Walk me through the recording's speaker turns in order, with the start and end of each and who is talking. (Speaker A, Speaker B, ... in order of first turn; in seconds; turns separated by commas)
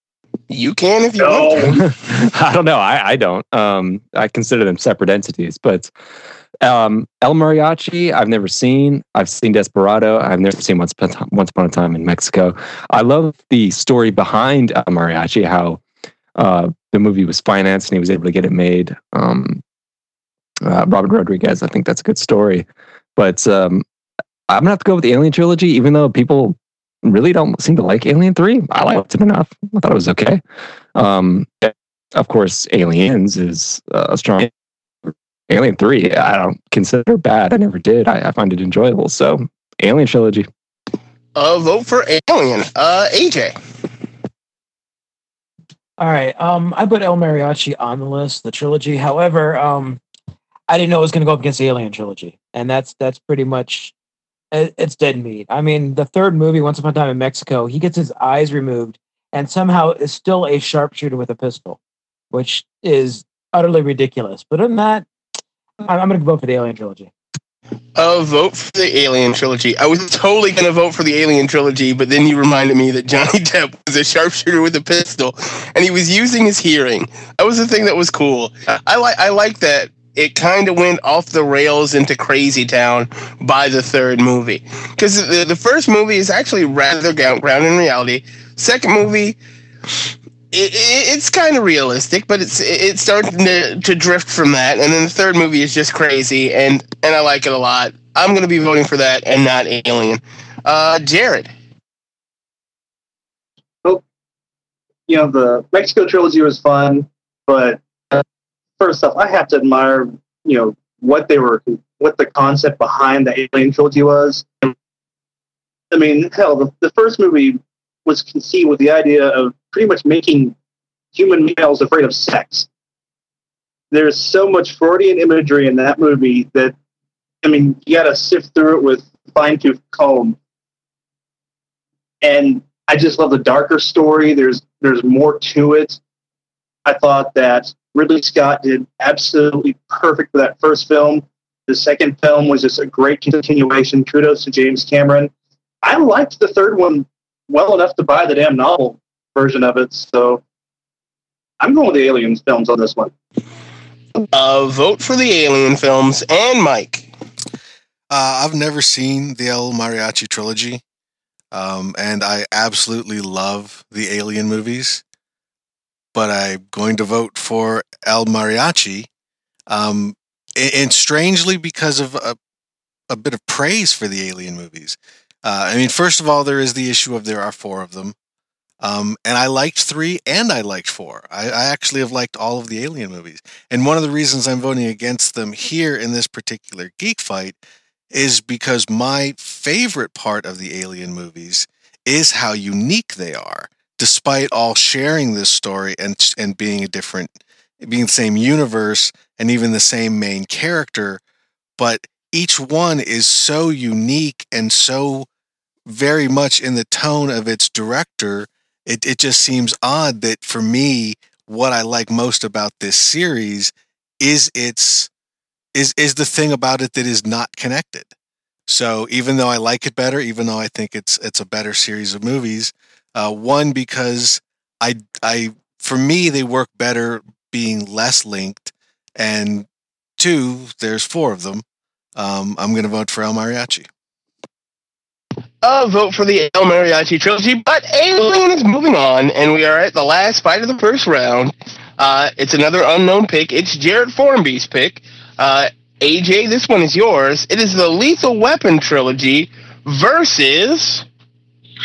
Speaker A: 0.5-1.8, Speaker B: 1.2-1.7, Speaker C: 1.8-5.9, Speaker C: 6.6-15.8, Speaker C: 16.4-19.6, Speaker C: 20.6-22.6, Speaker C: 23.2-23.8, Speaker C: 24.5-30.4, Speaker C: 30.9-34.5, Speaker C: 35.5-40.5, Speaker A: 41.4-43.6, Speaker D: 46.0-50.0, Speaker D: 50.7-53.9, Speaker D: 54.5-61.8, Speaker D: 62.3-65.1, Speaker D: 65.9-67.1, Speaker A: 68.0-89.4, Speaker A: 90.5-101.5, Speaker B: 105.1-108.2, Speaker B: 108.8-114.7, Speaker B: 115.9-120.5, Speaker B: 121.1-122.7, Speaker B: 123.9-126.8, Speaker B: 127.4-130.4, Speaker B: 132.2-136.0, Speaker B: 136.8-145.3, Speaker B: 145.8-150.4, Speaker B: 151.6-153.1, Speaker A: 154.3-157.1, Speaker E: 158.1-160.8, Speaker E: 161.5-165.0, Speaker E: 166.2-169.1, Speaker E: 169.7-172.4, Speaker E: 173.1-178.2, Speaker E: 178.8-187.6, Speaker E: 188.1-201.2, Speaker E: 201.8-205.3, Speaker E: 205.9-215.1, Speaker E: 215.8-218.1, Speaker E: 218.7-229.7, Speaker E: 230.2-231.6, Speaker E: 232.2-233.9, Speaker A: 235.6-251.1